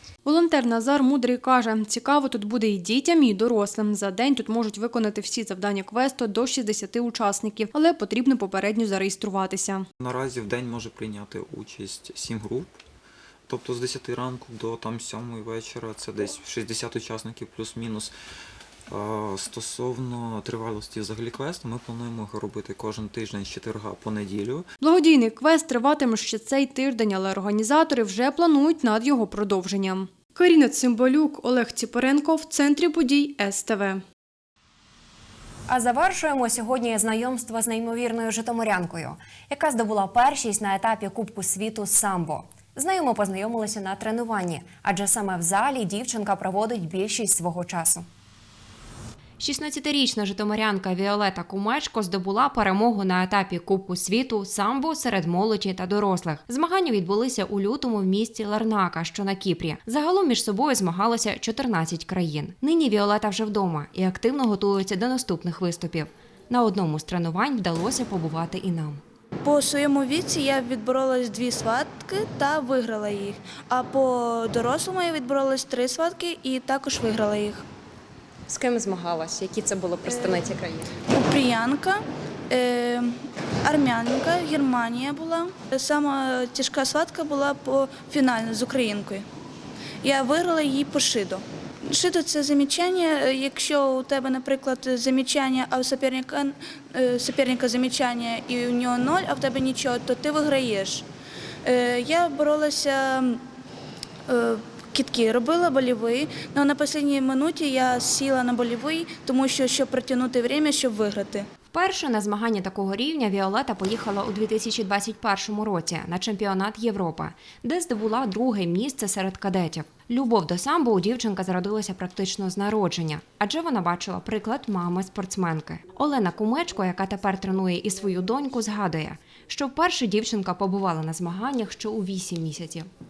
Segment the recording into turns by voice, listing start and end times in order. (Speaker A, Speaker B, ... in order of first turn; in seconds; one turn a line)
Speaker A: 0.2-9.8
Speaker B: 10.0-12.7
Speaker B: 13.5-18.1
Speaker B: 18.9-24.7
Speaker A: 24.8-34.0
Speaker C: 35.7-48.1
Speaker C: 49.4-69.0
Speaker D: 69.4-77.6
Speaker E: 78.5-80.9
Speaker D: 80.1-80.4
Speaker D: 81.1-89.2
Speaker D: 90.0-101.0
Speaker D: 101.6-103.4
Speaker D: 104.3-111.5
Speaker C: 111.7-132.9